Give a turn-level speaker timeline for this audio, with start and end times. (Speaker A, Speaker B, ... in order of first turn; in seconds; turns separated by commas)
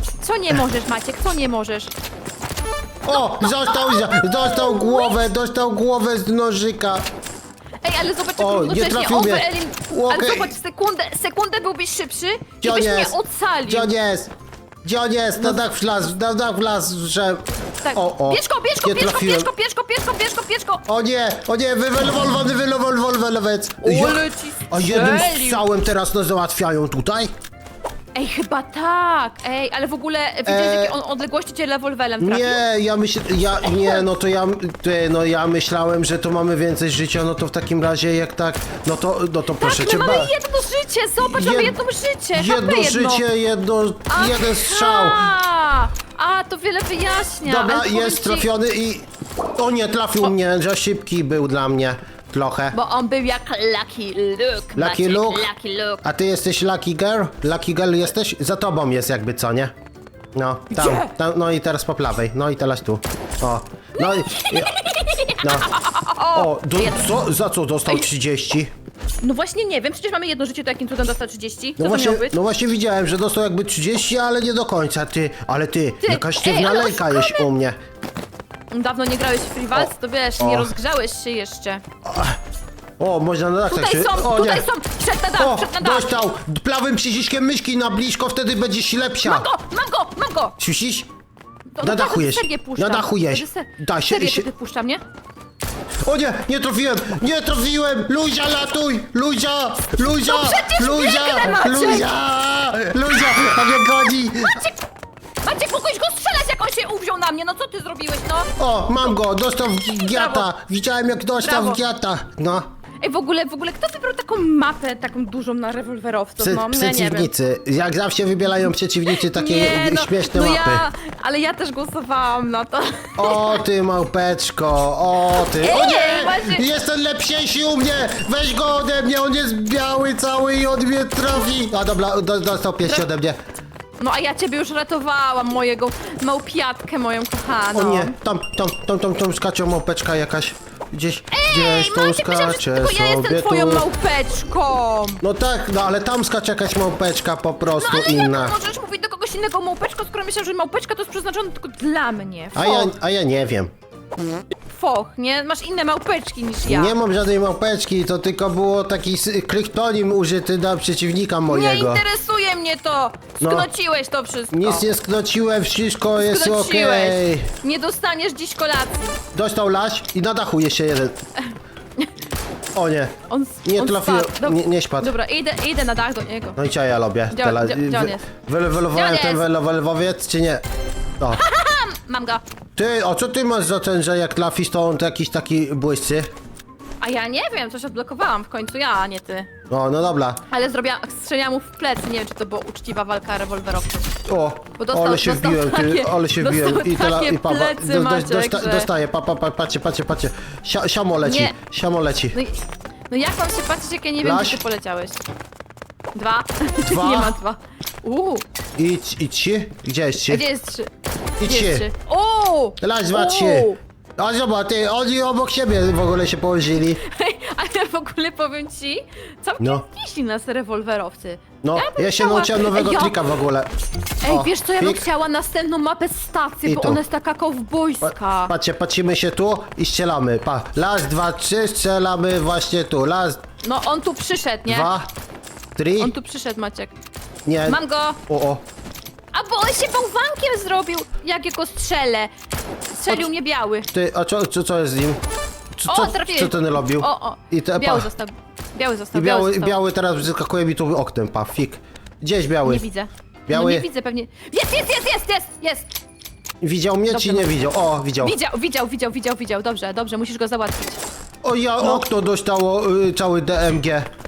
Speaker A: 0.2-1.9, Speaker B: 3.0-7.0, Speaker A: 3.1-5.2, Speaker A: 7.8-13.9, Speaker B: 8.4-10.6, Speaker B: 12.6-13.1, Speaker B: 13.7-14.3, Speaker B: 14.8-19.5, Speaker A: 17.8-20.8, Speaker B: 20.9-27.3, Speaker A: 23.8-25.6, Speaker A: 28.1-32.6, Speaker B: 30.4-30.9, Speaker B: 32.2-40.3, Speaker A: 33.6-34.1, Speaker A: 39.6-43.2, Speaker B: 41.2-41.8, Speaker B: 42.3-45.3, Speaker A: 44.1-48.5, Speaker B: 47.4-52.8, Speaker A: 52.7-56.0, Speaker B: 54.7-55.5, Speaker B: 56.0-59.7, Speaker B: 60.3-64.8, Speaker A: 60.7-61.1, Speaker A: 64.0-67.1, Speaker B: 65.4-65.7, Speaker B: 66.3-68.7, Speaker A: 69.2-72.3, Speaker B: 71.8-77.8, Speaker A: 76.0-77.5, Speaker A: 78.7-81.8, Speaker B: 79.8-80.7, Speaker B: 82.0-82.4, Speaker B: 83.0-84.7, Speaker A: 83.7-86.1, Speaker B: 85.4-89.5, Speaker A: 89.2-90.6, Speaker B: 90.6-91.1, Speaker A: 91.8-95.0, Speaker B: 91.8-94.5, Speaker B: 96.0-104.6, Speaker A: 100.2-102.1, Speaker A: 103.1-104.8, Speaker A: 105.4-109.2, Speaker B: 108.6-112.7, Speaker A: 109.9-110.5, Speaker A: 111.4-111.8, Speaker A: 113.0-117.3, Speaker B: 116.4-120.8, Speaker A: 119.1-123.6, Speaker B: 123.2-133.4, Speaker A: 125.3-126.7, Speaker A: 134.0-138.2, Speaker B: 137.7-143.9, Speaker A: 141.3-145.2, Speaker B: 145.2-148.5, Speaker A: 147.7-152.9, Speaker B: 152.6-153.7, Speaker A: 154.7-156.9, Speaker B: 156.7-162.0, Speaker A: 161.5-164.8, Speaker B: 163.4-163.7, Speaker B: 164.5-167.5, Speaker A: 166.2-169.2, Speaker B: 169.3-171.2, Speaker B: 172.7-173.1, Speaker A: 173.3-176.6, Speaker B: 173.7-175.1, Speaker B: 176.6-180.6, Speaker A: 177.3-178.3, Speaker A: 178.9-179.4, Speaker A: 181.3-182.4, Speaker B: 182.8-186.3, Speaker A: 187.0-189.5, Speaker B: 189.7-190.4, Speaker A: 190.5-194.1, Speaker B: 194.2-202.4, Speaker A: 194.8-198.9, Speaker A: 201.2-201.6, Speaker A: 202.3-205.2, Speaker B: 204.2-204.6, Speaker A: 206.1-208.4, Speaker B: 206.8-207.3, Speaker B: 208.8-210.4, Speaker A: 210.3-210.9, Speaker B: 211.4-211.9, Speaker A: 211.4-213.8, Speaker B: 212.8-217.0, Speaker A: 217.0-223.3, Speaker B: 221.6-223.7, Speaker A: 224.2-228.5, Speaker B: 224.2-225.0, Speaker B: 226.6-227.0, Speaker B: 228.0-233.4, Speaker A: 233.6-234.9, Speaker B: 234.7-235.1, Speaker B: 235.7-236.1, Speaker A: 236.0-236.9, Speaker B: 237.4-238.6, Speaker A: 237.7-238.2, Speaker A: 239.3-242.3, Speaker A: 242.9-243.9, Speaker B: 243.9-245.2, Speaker B: 245.8-248.1, Speaker A: 245.8-249.8, Speaker B: 249.1-252.8, Speaker A: 252.6-255.9, Speaker B: 253.5-253.8, Speaker B: 256.6-258.4, Speaker A: 257.1-257.6, Speaker A: 258.1-261.0, Speaker B: 261.4-264.1, Speaker A: 261.8-262.1